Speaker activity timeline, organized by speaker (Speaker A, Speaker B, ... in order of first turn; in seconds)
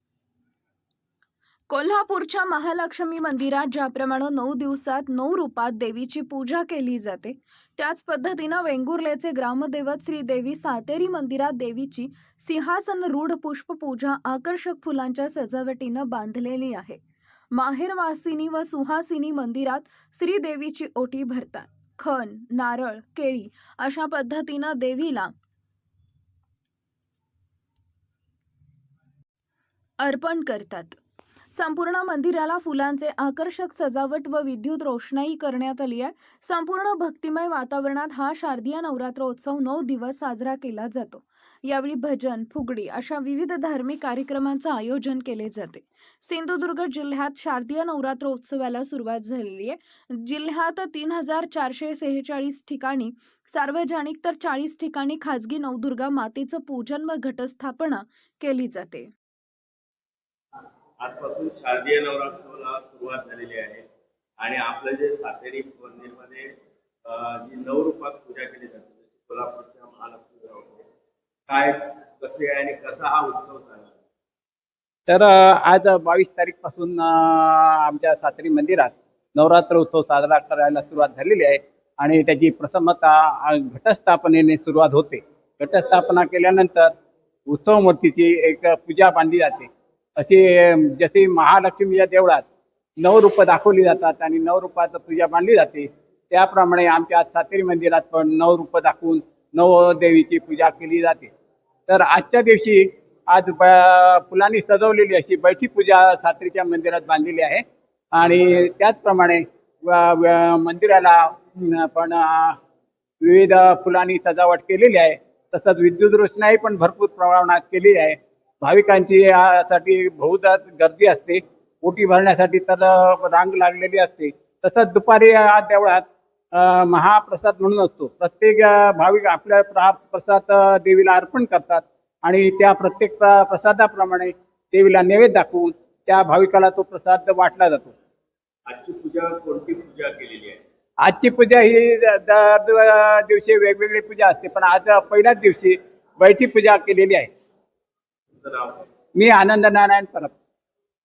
Speaker A: 1.7-25.3, 30.0-31.0, 31.5-59.1
Speaker B: 61.0-63.8, 64.4-66.5, 67.0-70.9, 71.5-74.0, 138.7-140.6, 148.3-148.8
Speaker C: 75.1-86.9, 87.5-92.5, 93.0-101.3, 101.9-112.6, 113.2-137.9, 141.0-147.3, 149.2-150.3